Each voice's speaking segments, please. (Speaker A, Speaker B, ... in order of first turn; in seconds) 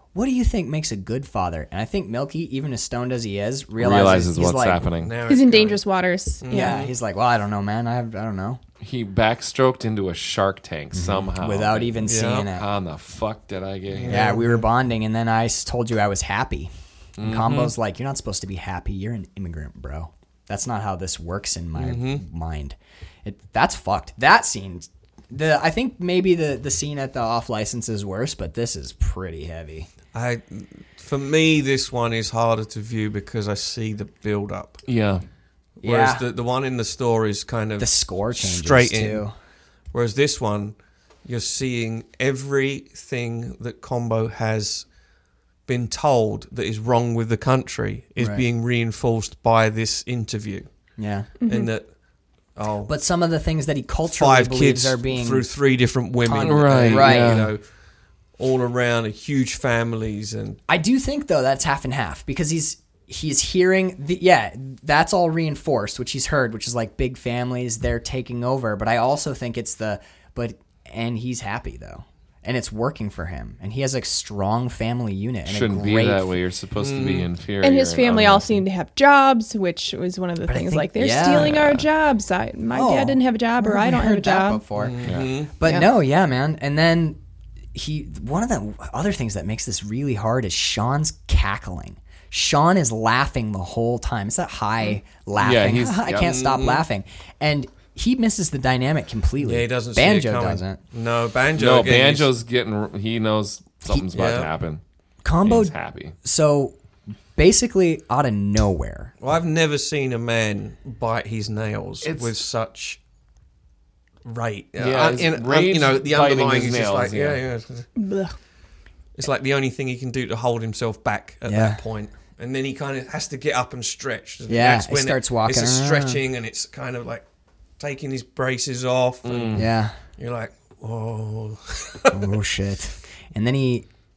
Speaker A: 0.1-4.8, 6.5-8.6, 10.9-12.7, 14.1-29.9, 35.8-36.2, 37.8-39.3, 48.2-48.4, 51.0-51.3, 52.9-55.5, 56.2-57.5, 60.7-76.3, 80.5-81.8, 82.7-87.2, 87.7-100.8, 105.2-106.8, 107.4-109.1, 121.5-121.8, 124.5-126.2, 129.6-130.0, 132.1-133.9
Speaker B: 3.8-5.1, 8.8-14.3, 17.2-17.7, 34.9-35.2, 56.4-57.5, 75.5-78.6, 81.3-81.8, 85.0-85.3, 95.4-96.3, 101.6-104.8, 105.4-106.1, 112.0-112.3, 114.8-117.4, 129.2-129.7
Speaker C: 5.0-5.8, 6.4-6.9, 12.1-12.5, 13.9-14.7, 21.8-22.2, 30.1-34.8, 35.8-39.2, 39.9-44.9, 45.7-50.7, 51.4-51.9, 52.5-52.9, 54.1-57.6, 58.4-60.6, 76.8-77.3, 84.8-85.5, 96.2-96.8, 99.4-102.3, 104.1-104.5, 109.2-113.0, 114.2-117.9, 119.2-127.2, 127.8-132.4
Speaker D: 5.3-6.8, 51.4-51.7, 77.6-84.6, 85.6-85.9, 118.0-118.4